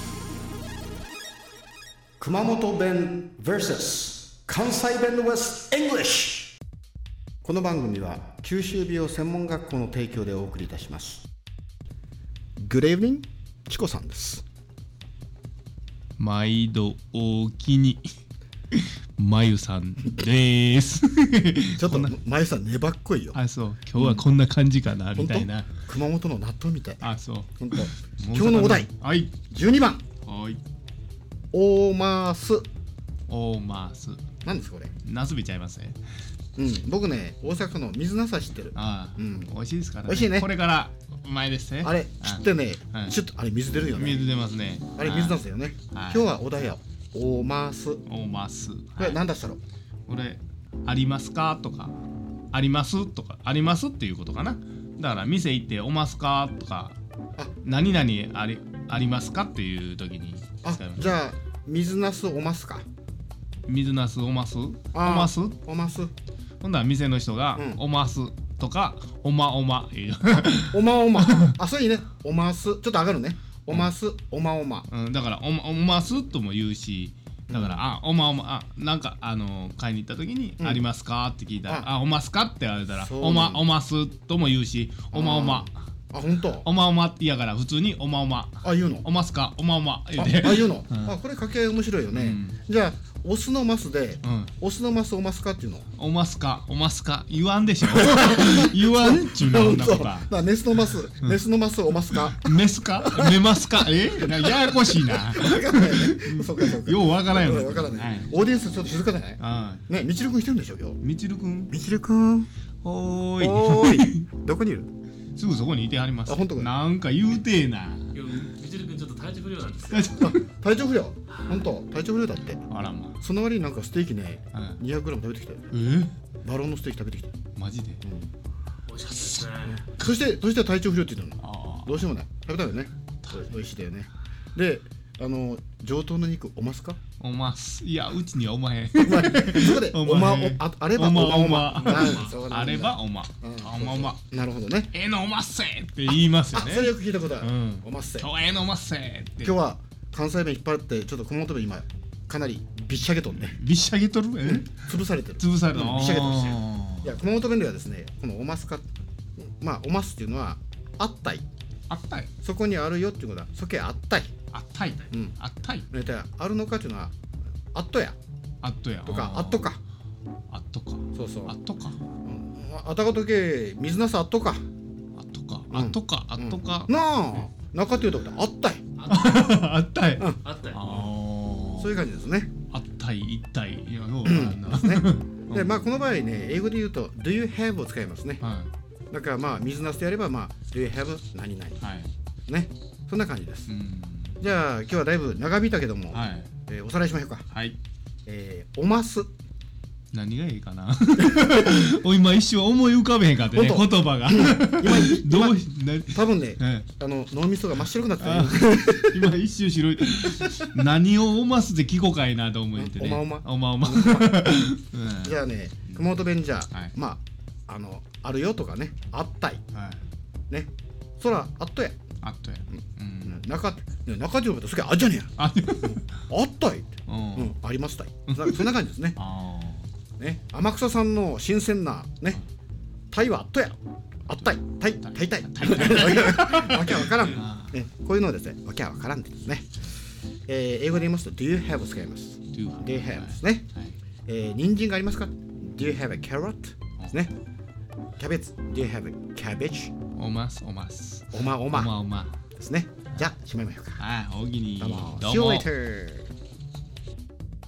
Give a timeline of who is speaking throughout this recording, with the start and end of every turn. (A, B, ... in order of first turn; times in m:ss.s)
0:02.2-0:06.5 A
0:07.4-0:11.3 A
0:12.6-0:14.4 A
0:16.2-0:18.0 B
0:18.7-0:22.1 B
0:21.8-0:23.4 A
0:23.3-0:25.7 B
0:25.2-0:28.9 A
0:27.0-0:29.3 B
0:29.5-0:30.0 A
0:30.2-0:30.6 B
0:31.5-0:32.7 A
0:33.3-0:34.2 B
0:34.4-0:34.9 A
0:35.0-0:36.0 B
0:36.6-0:39.5 A
0:38.7-0:43.2 B
0:40.0-0:40.5 A
0:41.8-0:44.3 A
0:43.9-0:45.4 B
0:45.0-0:48.0 A
0:45.9-0:46.3 B
0:48.0-0:49.2 B
0:49.0-0:49.6 A
0:50.1-0:52.0 B
0:52.5-0:57.0 B
0:57.6-1:01.0 B
1:00.6-1:02.9 A
1:03.7-1:05.6 B
1:04.9-1:06.1 A
1:06.6-1:11.5 B
1:07.6-1:07.8 A
1:10.6-1:14.9 A
1:14.9-1:25.7 B
1:17.5-1:17.8 A
1:20.6-1:20.9 A
1:23.0-1:23.6 A
1:25.1-1:26.7 A
1:26.6-1:31.1 B
1:28.6-1:29.1 A
1:30.2-1:35.9 A
1:32.1-1:32.6 B
1:34.2-1:34.5 B
1:36.0-1:40.3 B
1:37.9-1:43.4 A
1:42.1-1:48.3 B
1:44.6-1:51.0 A
1:49.4-1:49.8 B
1:51.0-1:51.7 B
1:51.7-1:52.5 A
1:52.8-1:54.2 B
1:53.4-1:54.9 A
1:55.4-1:58.3 B
1:56.2-1:56.7 A
1:58.1-2:00.1 C
1:59.9-2:00.4 B
2:00.2-2:02.6 A
2:01.3-2:01.7 B
2:02.7-2:03.2 B
2:03.2-2:05.7 A
2:04.5-2:04.8 B
2:05.7-2:06.1 B
2:06.4-2:07.3 A
2:07.6-2:08.0 B
2:08.0-2:08.3 A
2:08.9-2:09.8 C
2:09.1-2:09.6 B
2:09.6-2:17.0 A
2:11.4-2:12.1 B
2:17.2-2:24.2 B
2:19.0-2:24.9 A
2:24.9-2:29.6 B
2:26.1-2:28.3 A
2:29.4-2:33.6 A
2:33.5-2:34.8 B
2:34.4-2:38.8 A
2:35.4-2:37.2 B
2:39.4-2:41.4 A
2:41.9-2:42.3 B
2:42.4-2:44.3 A
2:44.5-2:45.9 B
2:45.9-2:47.1 A
2:47.7-2:48.2 A
2:48.6-2:49.7 B
2:49.0-2:49.8 A
2:50.5-2:52.0 B
2:51.1-2:51.5 A
2:52.2-2:54.6 A
2:55.2-2:56.9 B
2:55.7-2:58.8 A
2:59.0-2:59.4 C
2:59.0-3:02.0 B
3:00.2-3:00.4 A
3:00.4-3:00.8 C
3:01.8-3:02.5 A
3:02.7-3:05.8 B
3:04.2-3:08.4 A
3:08.4-3:08.7 B
3:09.1-3:11.8 A
3:11.8-3:12.1 B
3:12.5-3:13.7 A
3:13.7-3:14.4 B
3:14.4-3:17.5 A
3:16.1-3:16.5 B
3:17.5-3:17.8 B
3:18.3-3:19.3 A
3:20.1-3:26.9 B
3:23.5-3:29.2 A
3:28.2-3:35.4 B
3:32.8-3:34.7 A
3:35.2-3:39.6 A
3:39.7-3:40.0 B
3:40.5-3:42.0 A
3:42.2-3:43.4 B
3:42.7-3:49.2 A
3:45.4-3:46.0 B
3:47.1-3:47.6 B
3:48.3-3:49.9 B
3:50.2-3:52.4 A
3:53.1-3:59.8 A
3:54.4-3:57.8 B
4:00.5-4:03.7 A
4:02.5-4:04.0 B
4:04.3-4:07.3 A
4:08.2-4:10.0 A
4:10.2-4:12.4 B
4:11.3-4:11.9 A
4:12.6-4:14.0 A
4:14.0-4:15.7 B
4:14.8-4:16.3 A